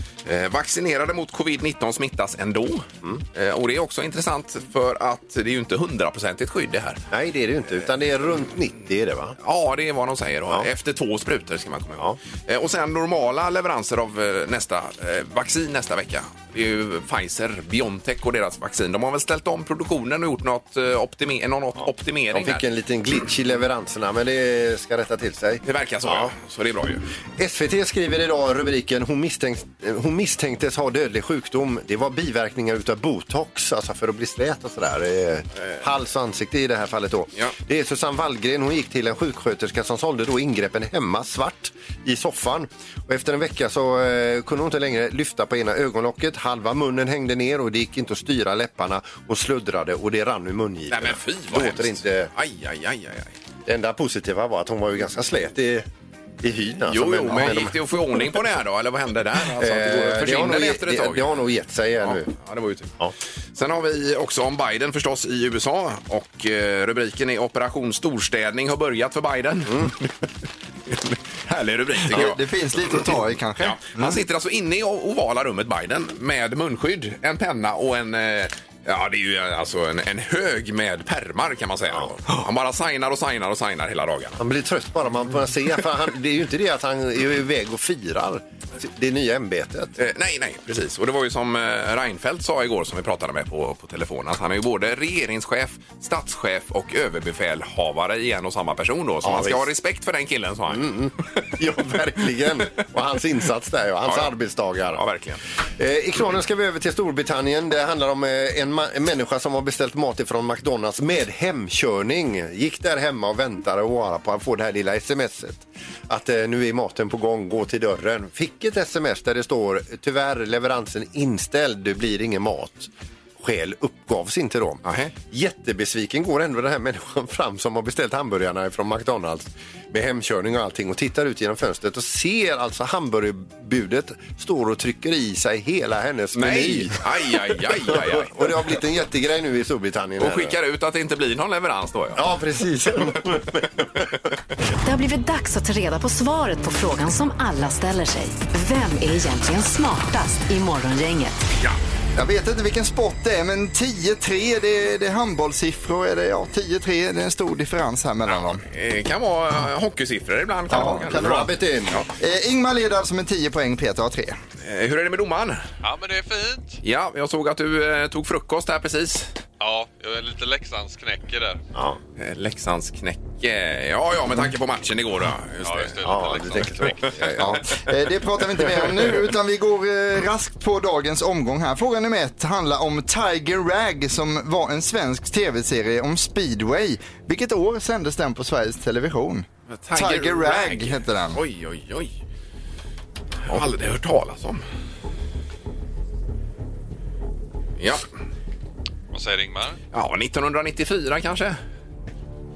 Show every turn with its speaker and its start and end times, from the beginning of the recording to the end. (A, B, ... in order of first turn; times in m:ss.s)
0:00.2-0:07.0 A
0:07.1-0:09.4 B
0:09.4-0:22.6 A
0:21.8-0:26.3 B
0:25.6-0:27.0 A
0:27.4-0:52.3 B
0:50.9-0:53.3 A
0:53.6-0:55.9 B
0:56.4-0:57.8 B
0:56.9-1:01.3 A
0:59.5-1:02.3 B
1:02.0-1:02.9 A
1:03.5-1:10.1 A
1:09.7-1:09.9 B
1:10.9-1:24.4 A
1:12.1-1:14.2 C
1:24.4-1:29.9 B
1:30.0-1:40.9 A
1:39.2-1:39.6 B
1:40.7-1:45.0 B
1:44.0-1:44.3 A
1:44.9-1:45.4 A
1:45.8-2:02.9 B
2:03.4-2:17.0 B
2:04.8-2:05.1 A
2:16.3-2:18.5 A
2:17.9-2:20.6 B
2:20.2-2:22.2 A
2:22.1-2:24.0 B
2:24.8-2:31.4 D
2:32.2-2:38.6 C
2:38.3-2:42.1 A
2:40.7-2:41.5 C
2:41.1-2:42.0 B
2:42.2-2:44.4 C
2:44.6-2:45.6 A
2:45.8-2:46.8 E
2:46.8-2:49.3 A
2:49.6-2:51.6 E
2:51.7-2:52.0 B
2:52.2-2:56.0 A
2:55.6-2:57.2 E
2:56.0-2:57.6 B
2:57.4-3:11.4 C
3:09.7-3:12.1 A
3:13.4-3:14.6 A
3:17.8-3:18.0 A
3:19.1-3:19.8 E
3:19.9-3:21.6 A